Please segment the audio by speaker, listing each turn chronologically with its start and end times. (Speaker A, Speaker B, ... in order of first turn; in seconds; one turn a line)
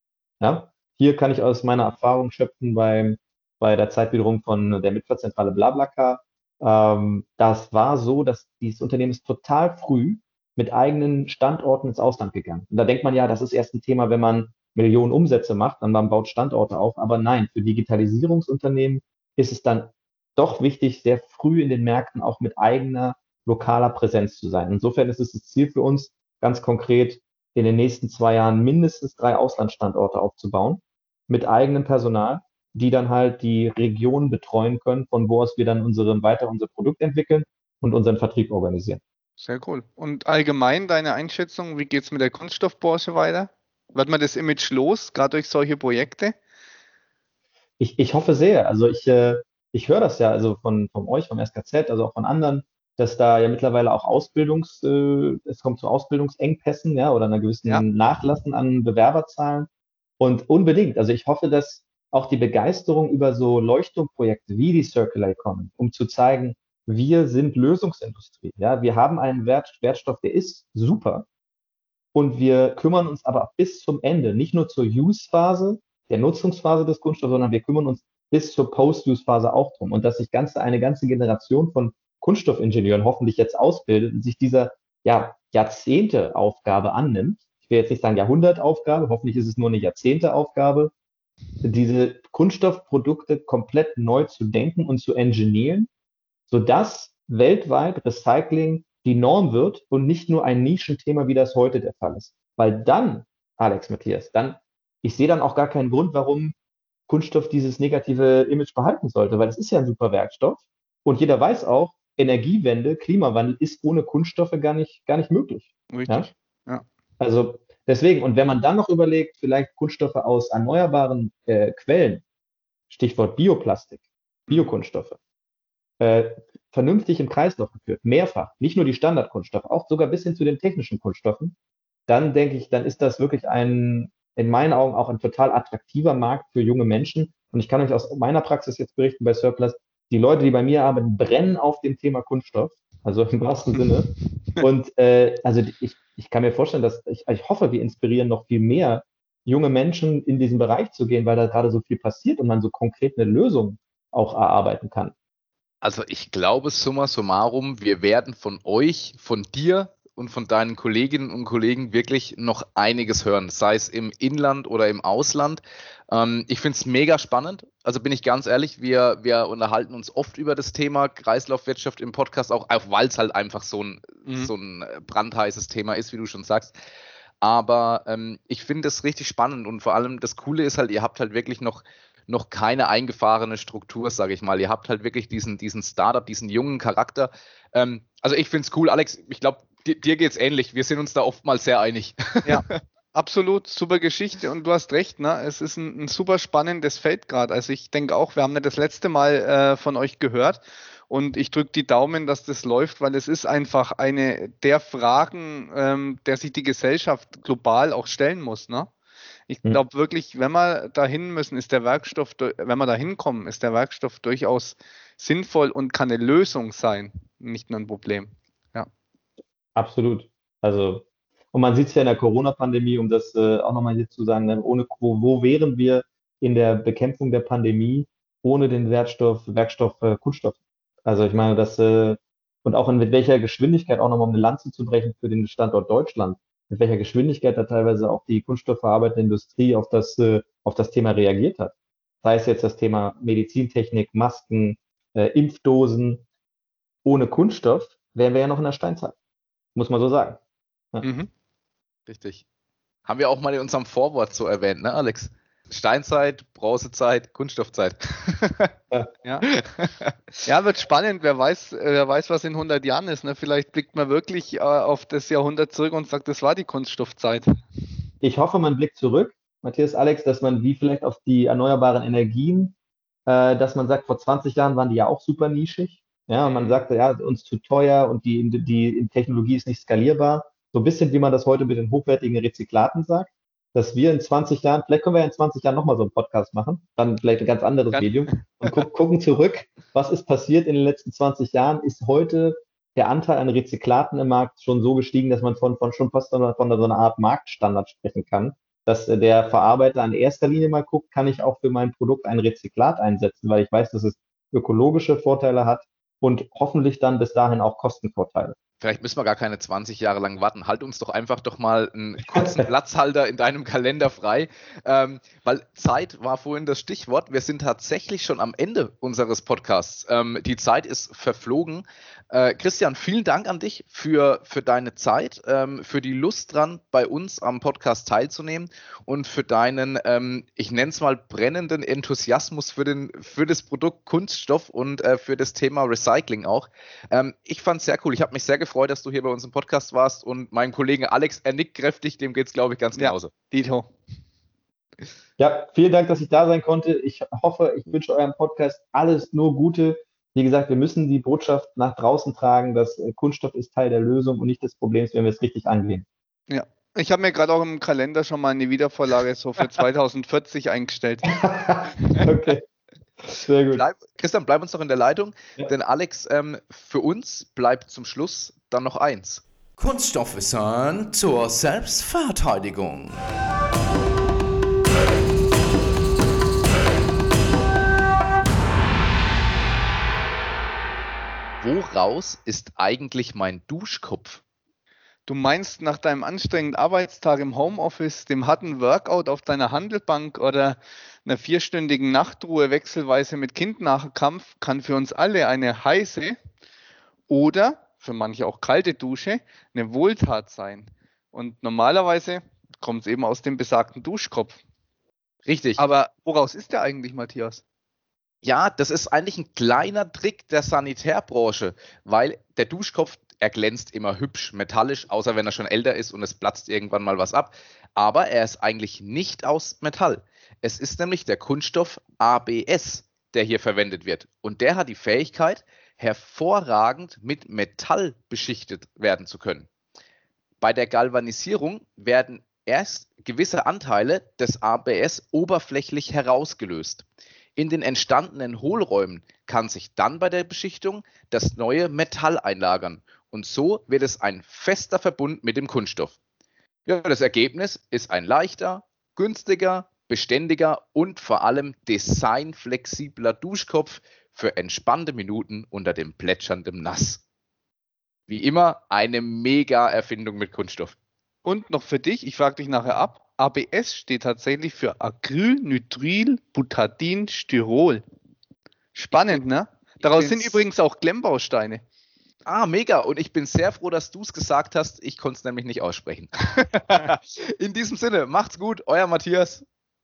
Speaker A: 0.4-39.0
Speaker B: 39.4-46.4
Speaker A: 47.8-59.7
Speaker A: 60.2-71.3
Speaker A: 72.1-90.9
Speaker A: 91.6-95.9
Speaker A: 96.5-106.5
Speaker A: 107.1-116.3
Speaker B: 115.9-116.8
Speaker A: 117.2-122.2
Speaker A: 122.9-125.2
Speaker A: 126.0-131.6
Speaker A: 132.1-155.1
Speaker C: 155.8-176.7
Speaker B: 174.3-174.5
Speaker C: 177.4-192.6
Speaker B: 192.4-208.9
Speaker B: 209.5-218.9
Speaker A: 219.8-246.2
Speaker A: 247.1-249.2
Speaker A: 249.8-250.4
Speaker B: 251.0-251.3
Speaker C: 252.1-252.4
Speaker C: 253.1-258.7
Speaker C: 259.4-260.4
Speaker B: 260.5-267.5
Speaker A: 268.2-272.8
Speaker A: 273.3-308.6
Speaker B: 276.5-276.8
Speaker B: 287.9-288.8
Speaker C: 308.8-343.3
Speaker A: 312.3-312.6
Speaker B: 343.0-343.9
Speaker A: 345.4-356.1
Speaker B: 356.5-361.3
Speaker A: 361.3-362.6
Speaker A: 363.3-363.8
Speaker C: 363.7-373.2
Speaker C: 381.6-384.4
Speaker B: 385.3-396.4
Speaker B: 397.3-404.6
Speaker C: 405.5-405.8
Speaker B: 405.8-407.6
Speaker C: 408.4-429.7
Speaker C: 430.6-437.0
Speaker C: 437.6-446.2
Speaker C: 446.9-457.2
Speaker C: 458.3-460.9
Speaker B: 461.4-468.0
Speaker B: 468.9-471.8
Speaker C: 470.0-470.6
Speaker C: 472.5-479.6